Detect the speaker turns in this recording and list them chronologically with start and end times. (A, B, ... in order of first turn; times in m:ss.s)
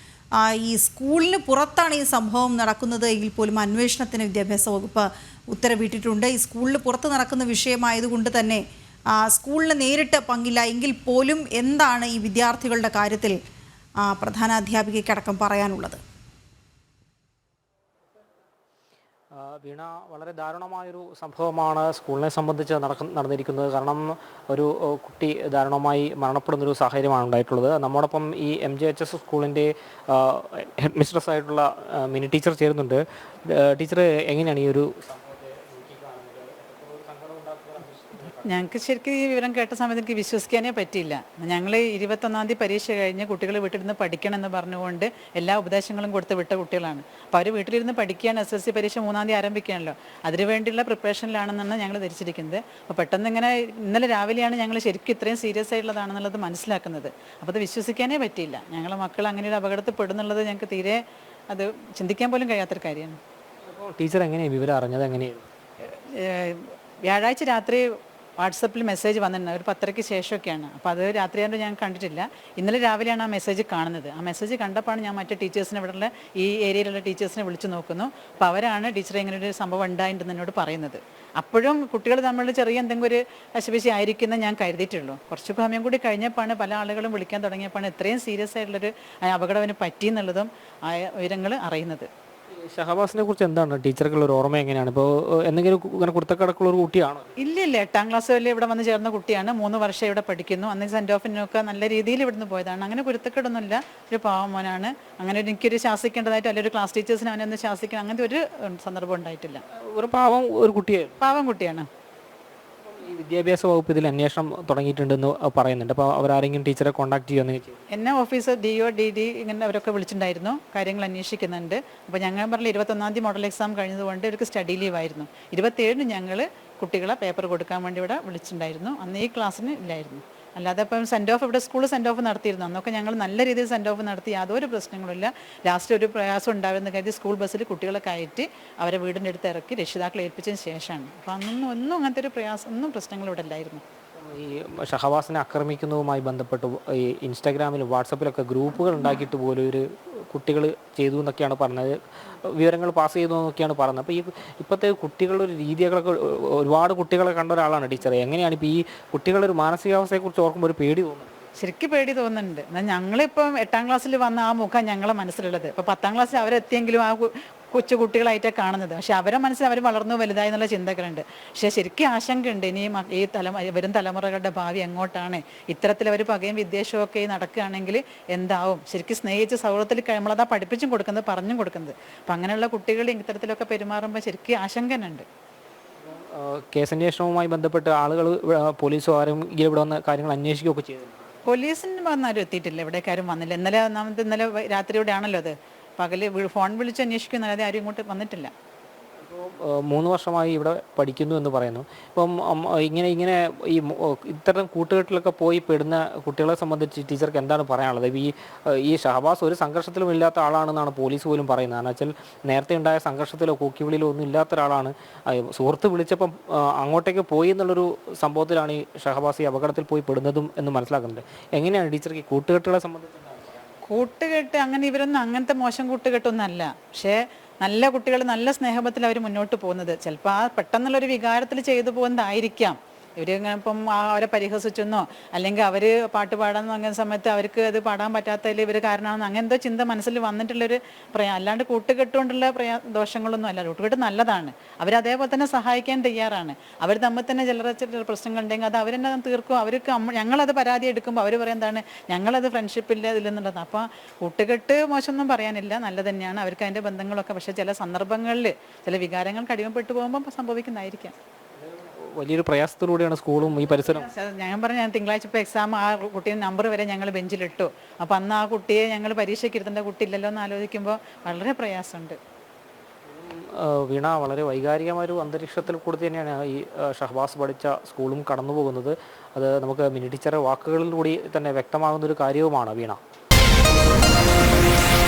0:00.4-0:08.6 A
0:09.1-0:13.4 A
0:14.0-0:16.0 A
0:19.3-0:38.7 B
0:38.4-1:03.2 C
1:03.7-1:05.4 B
1:05.8-1:07.8 C
1:08.4-1:32.1 C
1:32.6-1:37.3 B
1:37.4-1:49.6 C
1:49.7-1:51.3 B
1:51.2-1:51.9 C
1:52.8-1:57.8 B
1:57.9-2:23.8 C
2:24.2-2:41.4 B
2:41.6-3:05.2 C
3:06.0-3:11.3 B
3:11.4-3:18.5 C
3:19.2-3:43.6 B
3:43.8-4:21.1 C
4:21.6-4:24.1 B
4:23.7-4:32.2 C
4:33.1-4:43.0 B